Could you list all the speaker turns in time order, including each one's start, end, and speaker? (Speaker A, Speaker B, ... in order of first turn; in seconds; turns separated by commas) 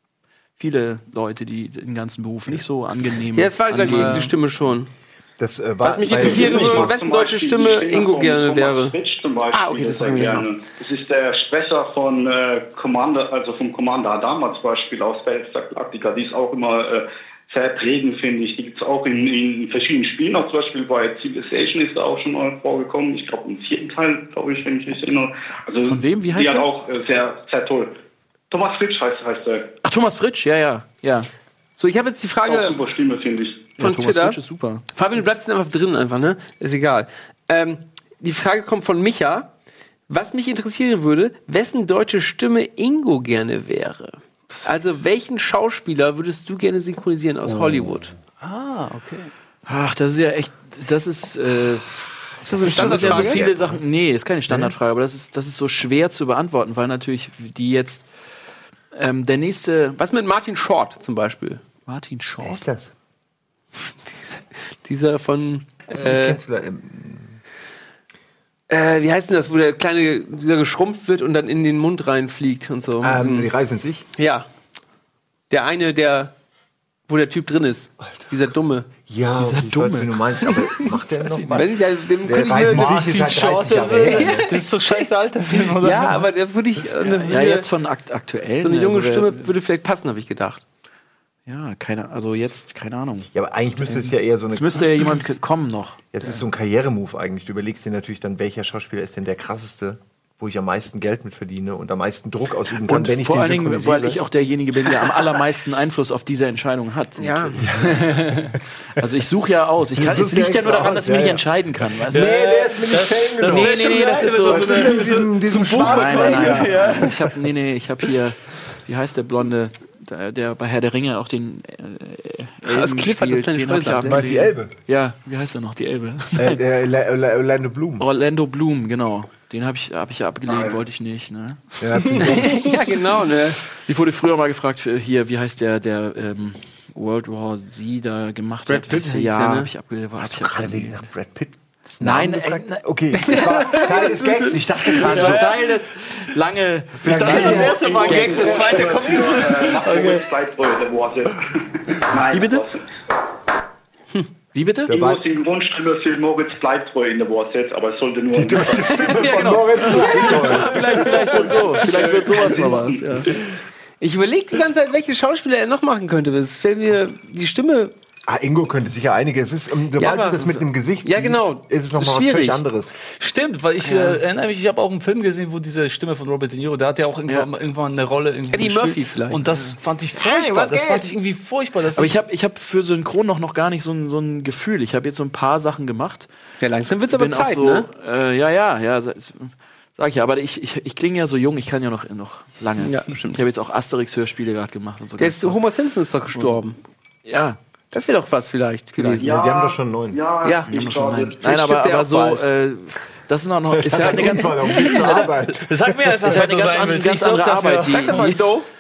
Speaker A: 0.6-4.3, Speaker B: 3.4-4.9, Speaker C: 3.8-4.3, Speaker D: 5.4-7.0, Speaker B: 5.8-9.0, Speaker E: 6.1-28.0, Speaker B: 9.5-10.5, Speaker A: 25.9-26.7, Speaker E: 28.5-29.7, Speaker A: 29.8-31.3, Speaker B: 31.8-32.8, Speaker E: 32.5-33.8, Speaker A: 33.8-34.8, Speaker B: 33.8-39.5, Speaker B: 40.1-48.1, Speaker D: 47.6-48.1, Speaker C: 48.4-49.3, Speaker A: 49.7-58.1, Speaker B: 52.4-53.4, Speaker C: 52.8-53.4, Speaker D: 54.5-54.7, Speaker A: 58.9-60.0, Speaker B: 60.0-61.6, Speaker A: 61.9-62.6, Speaker D: 62.4-62.9, Speaker B: 64.3-66.4, Speaker D: 66.0-67.4, Speaker B: 68.7-73.5, Speaker D: 73.0-74.0, Speaker B: 74.2-74.5, Speaker B: 75.5-76.3, Speaker B: 77.1-78.9, Speaker D: 79.1-84.5, Speaker A: 79.4-81.7, Speaker B: 81.5-83.2, Speaker C: 82.7-86.3, Speaker B: 84.0-85.1, Speaker B: 85.8-87.7, Speaker A: 87.0-89.5, Speaker B: 88.6-90.6, Speaker A: 91.5-93.3, Speaker D: 93.3-95.1, Speaker A: 94.5-96.0, Speaker D: 96.1-104.2, Speaker A: 102.8-108.1, Speaker B: 107.2-107.6, Speaker D: 107.6-109.0, Speaker C: 107.9-108.5, Speaker A: 109.0-112.4, Speaker D: 110.0-117.3, Speaker C: 112.1-117.3, Speaker A: 113.4-126.6, Speaker B: 122.7-124.5, Speaker D: 124.0-124.8, Speaker D: 126.4-128.1, Speaker A: 128.0-132.3, Speaker E: 130.5-130.8, Speaker D: 131.8-132.8, Speaker B: 132.3-133.7, Speaker A: 133.7-141.0, Speaker B: 138.7-139.7, Speaker D: 140.3-145.5, Speaker A: 142.0-142.8, Speaker B: 143.2-143.8, Speaker C: 143.3-145.7, Speaker A: 145.0-149.6, Speaker D: 147.0-148.7, Speaker C: 147.1-150.2, Speaker E: 147.3-152.9, Speaker A: 152.3-152.7, Speaker A: 154.5-154.9, Speaker D: 154.9-155.2, Speaker E: 154.9-159.4, Speaker D: 158.3-161.4, Speaker B: 159.1-161.6, Speaker A: 159.2-163.4, Speaker E: 160.8-162.9, Speaker B: 164.0-167.9, Speaker D: 168.3-172.9, Speaker B: 170.0-172.6, Speaker C: 173.0-182.2, Speaker B: 173.8-174.2, Speaker B: 178.5-181.1, Speaker A: 181.9-186.3, Speaker B: 186.6-187.9, Speaker A: 187.1-195.6, Speaker B: 192.8-193.4, Speaker B: 195.2-196.8, Speaker A: 196.3-196.6, Speaker A: 197.2-197.6, Speaker B: 197.9-199.3, Speaker A: 199.0-199.2, Speaker D: 199.2-200.2, Speaker E: 199.2-201.4, Speaker B: 200.4-200.7, Speaker A: 200.7-205.4, Speaker B: 201.4-202.4, Speaker D: 203.7-206.4, Speaker C: 204.0-208.3, Speaker A: 206.2-208.5, Speaker B: 207.9-208.7